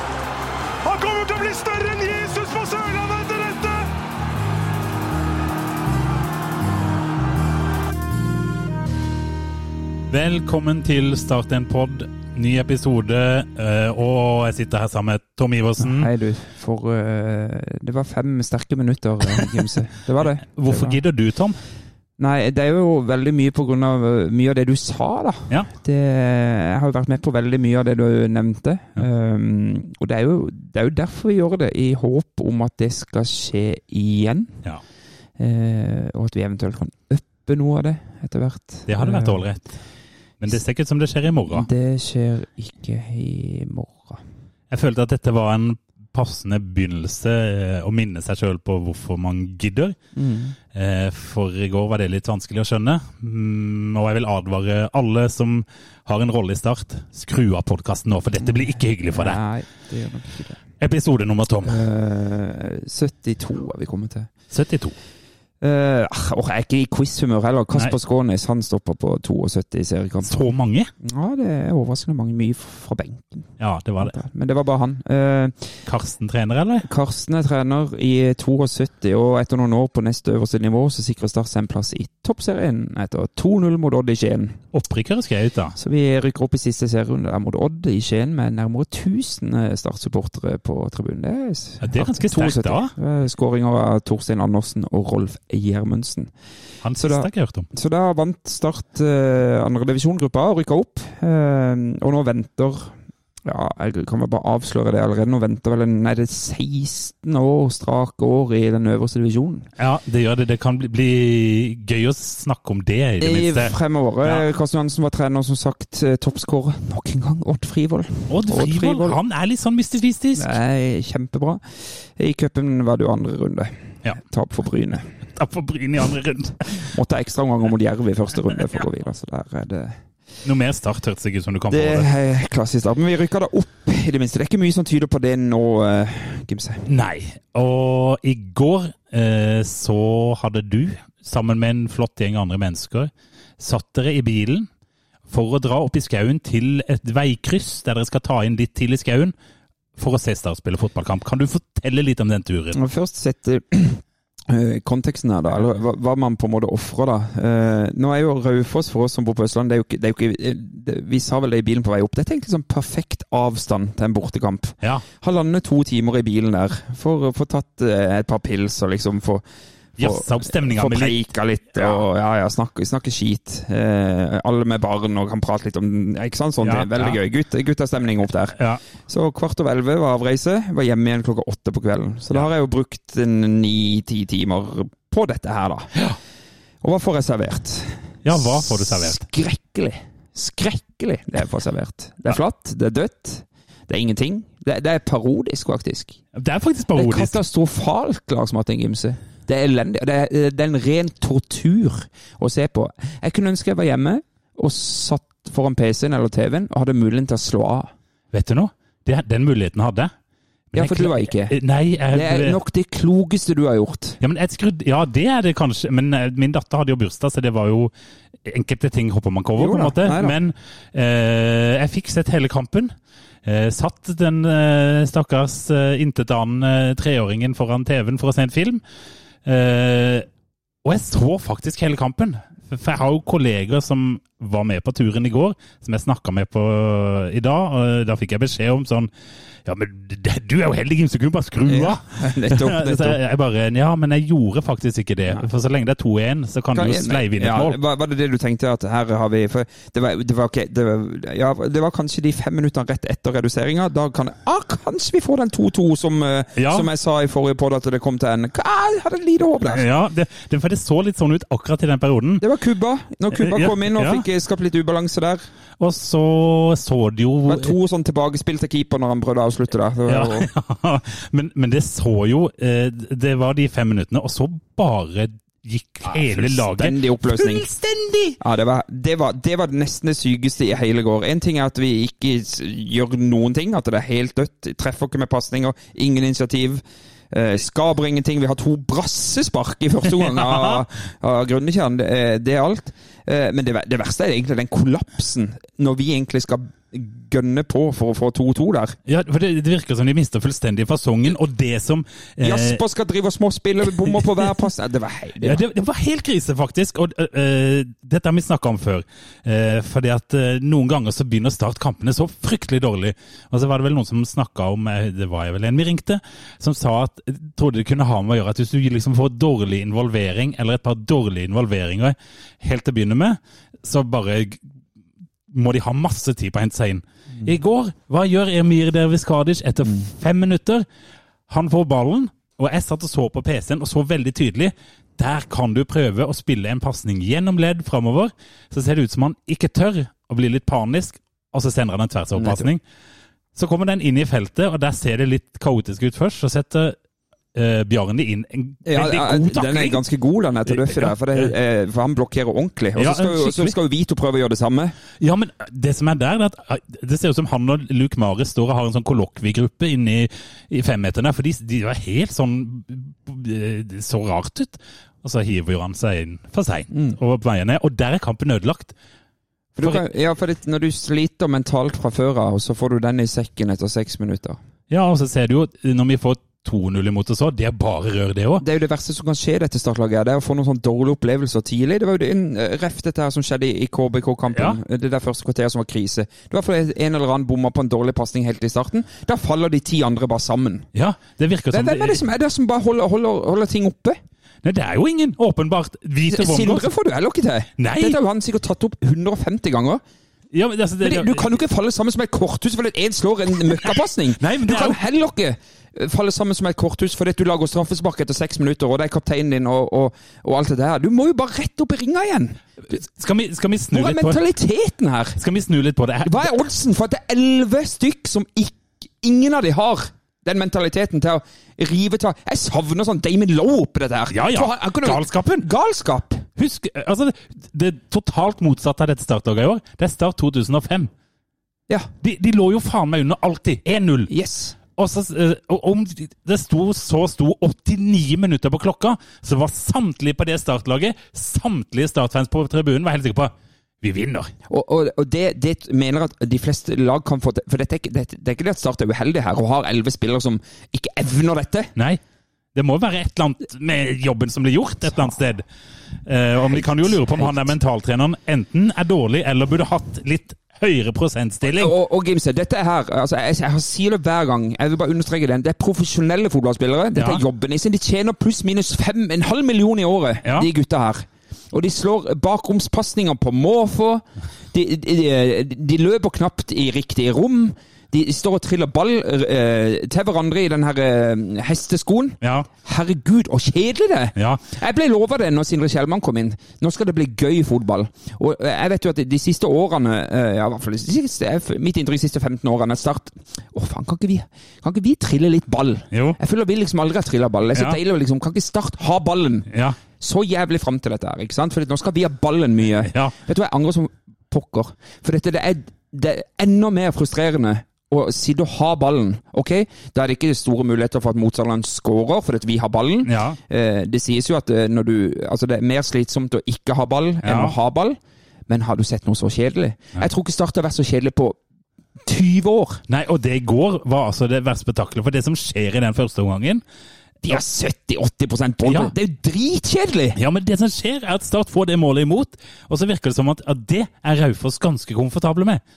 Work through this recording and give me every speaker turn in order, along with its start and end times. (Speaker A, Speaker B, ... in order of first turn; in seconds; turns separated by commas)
Speaker A: 0.8-3.9, Speaker B: 10.1-16.1, Speaker C: 15.8-21.0, Speaker B: 20.5-21.6, Speaker C: 22.2-34.6, Speaker C: 35.4-39.4, Speaker B: 38.9-39.7, Speaker B: 40.4-41.7, Speaker C: 41.5-44.2, Speaker B: 44.7-50.0, Speaker C: 50.1-50.5, Speaker B: 50.7-59.4, Speaker C: 58.4-60.6, Speaker B: 60.8-61.8, Speaker C: 61.6-64.3, Speaker B: 64.5-65.0, Speaker C: 65.6-70.5, Speaker B: 70.2-70.9, Speaker C: 71.0-73.5, Speaker B: 73.6-74.2, Speaker C: 74.0-75.5, Speaker B: 75.9-76.9, Speaker C: 76.8-84.6, Speaker B: 84.7-85.8, Speaker C: 85.8-96.3, Speaker B: 91.8-92.9, Speaker B: 96.8-97.7, Speaker C: 97.0-102.9, Speaker C: 103.5-109.7, Speaker B: 109.8-114.4, Speaker C: 113.2-119.2, Speaker B: 118.3-120.6, Speaker C: 120.4-121.6, Speaker C: 122.2-125.0, Speaker B: 125.3-126.8, Speaker C: 126.8-130.0, Speaker B: 130.4-132.1, Speaker C: 131.7-136.9, Speaker B: 136.9-144.7, Speaker B: 145.3-149.3, Speaker B: 150.0-152.8, Speaker C: 152.7-169.4, Speaker C: 170.0-178.6, Speaker B: 170.0-171.2, Speaker B: 176.6-177.2, Speaker B: 178.6-178.8, Speaker C: 179.1-185.9, Speaker C: 186.8-196.2, Speaker B: 188.2-189.2, Speaker B: 196.3-197.4, Speaker C: 196.9-207.9, Speaker B: 208.3-210.1, Speaker C: 210.7-211.6, Speaker B: 210.7-212.6, Speaker C: 212.1-214.2, Speaker B: 214.2-217.9, Speaker B: 218.5-222.9, Speaker C: 219.6-220.4, Speaker B: 223.4-228.8, Speaker B: 229.4-230.3, Speaker B: 230.8-239.1, Speaker B: 239.7-247.8, Speaker C: 241.7-243.2, Speaker C: 246.7-259.9, Speaker B: 256.6-256.9, Speaker B: 259.6-262.4, Speaker C: 262.4-265.4, Speaker B: 263.3-264.2, Speaker B: 265.8-267.7, Speaker C: 267.5-270.5, Speaker B: 270.1-278.4, Speaker C: 276.1-277.7, Speaker C: 278.4-299.0, Speaker B: 290.1-290.8, Speaker B: 299.1-302.8, Speaker C: 302.4-305.6, Speaker B: 305.4-324.6, Speaker B: 325.5-330.9, Speaker B: 331.5-342.8, Speaker C: 342.4-342.7, Speaker B: 343.6-347.0, Speaker B: 347.5-350.0, Speaker C: 348.9-354.9, Speaker B: 350.7-351.5, Speaker B: 353.0-353.8, Speaker B: 355.2-368.9, Speaker C: 369.8-374.6, Speaker B: 374.9-378.6, Speaker C: 378.6-390.9, Speaker B: 384.5-384.8, Speaker B: 390.9-392.2, Speaker C: 391.7-394.2, Speaker B: 394.6-396.9, Speaker C: 396.3-400.0, Speaker B: 397.8-398.2, Speaker B: 400.5-401.5, Speaker C: 401.0-412.6, Speaker B: 404.4-405.0, Speaker B: 412.9-414.4, Speaker C: 413.9-415.4, Speaker B: 415.4-416.4, Speaker C: 416.2-426.5, Speaker B: 424.3-425.7, Speaker B: 426.6-431.1, Speaker B: 432.2-434.3, Speaker C: 434.3-434.8, Speaker B: 435.0-444.5, Speaker C: 444.7-451.9, Speaker B: 452.8-455.6, Speaker B: 456.3-461.9, Speaker C: 456.6-457.7, Speaker C: 461.7-521.6, Speaker B: 467.1-467.4, Speaker B: 470.4-470.7, Speaker B: 482.4-482.7, Speaker B: 484.4-484.6, Speaker B: 496.1-496.4, Speaker B: 497.7-498.0, Speaker B: 499.7-500.0, Speaker B: 503.1-503.3, Speaker B: 513.2-513.6, Speaker B: 517.4-517.8, Speaker C: 522.2-523.0, Speaker B: 523.1-526.8, Speaker C: 527.4-530.4, Speaker B: 528.9-529.1, Speaker B: 530.3-535.8